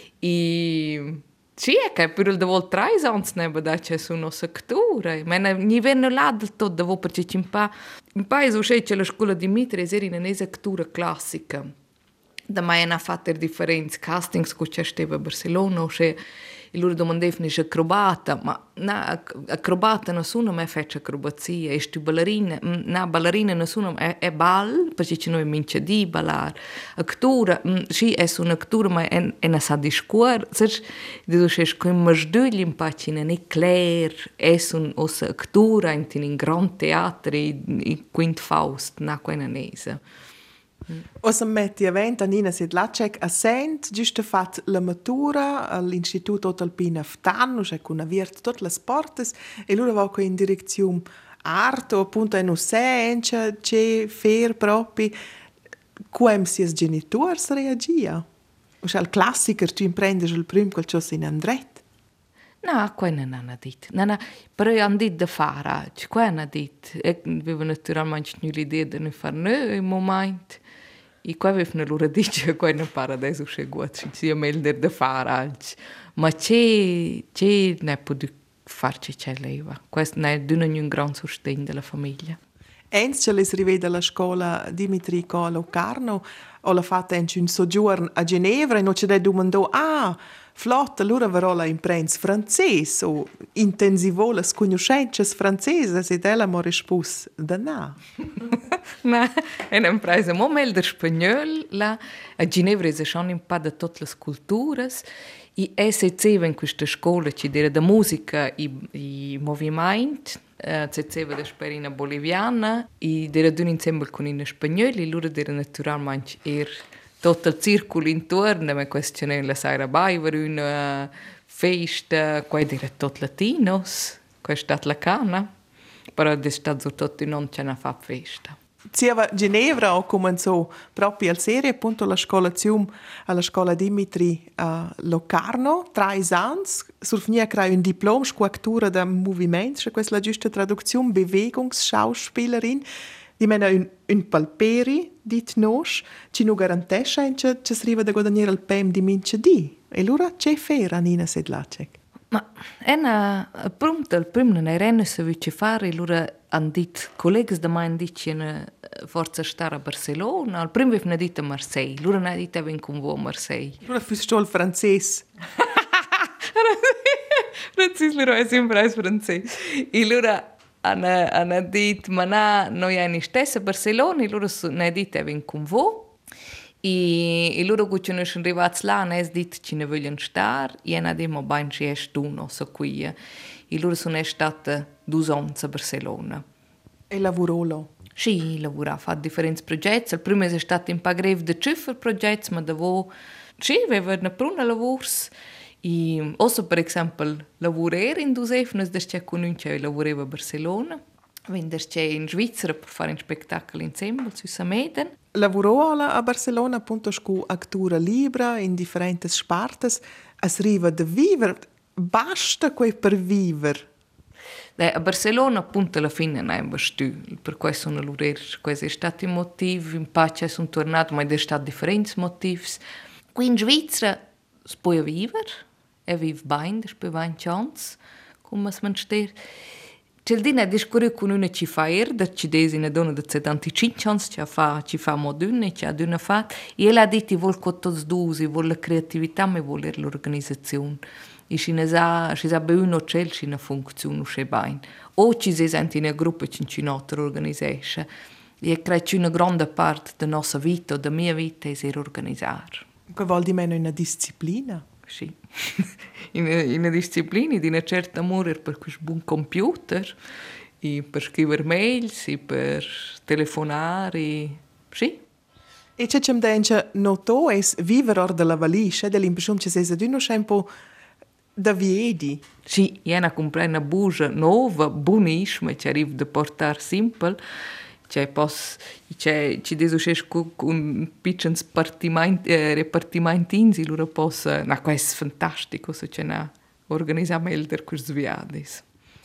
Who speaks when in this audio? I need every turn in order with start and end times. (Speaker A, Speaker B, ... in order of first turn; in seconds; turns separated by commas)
Speaker A: 0.2-11.7, Speaker A: 12.5-16.2, Speaker A: 16.7-40.0, Speaker B: 41.2-55.1, Speaker B: 56.1-58.2, Speaker B: 58.8-61.8, Speaker A: 62.6-70.6, Speaker A: 71.2-82.4, Speaker B: 82.9-98.0, Speaker A: 99.0-105.0, Speaker A: 105.5-125.5, Speaker A: 126.2-128.6, Speaker B: 128.9-142.8, Speaker B: 143.4-151.9, Speaker A: 152.3-163.8, Speaker B: 163.8-165.2, Speaker A: 166.4-176.1, Speaker A: 176.8-183.1, Speaker A: 183.7-186.4, Speaker B: 187.1-187.9, Speaker A: 188.2-195.3, Speaker A: 195.8-205.1, Speaker B: 205.3-213.8, Speaker A: 214.8-222.8, Speaker A: 223.3-229.3, Speaker A: 230.2-248.1, Speaker A: 248.6-252.8, Speaker B: 253.1-254.8, Speaker A: 255.1-260.1, Speaker A: 260.8-265.2, Speaker B: 266.0-270.7, Speaker B: 271.6-272.4, Speaker A: 272.6-277.4, Speaker A: 278.1-288.8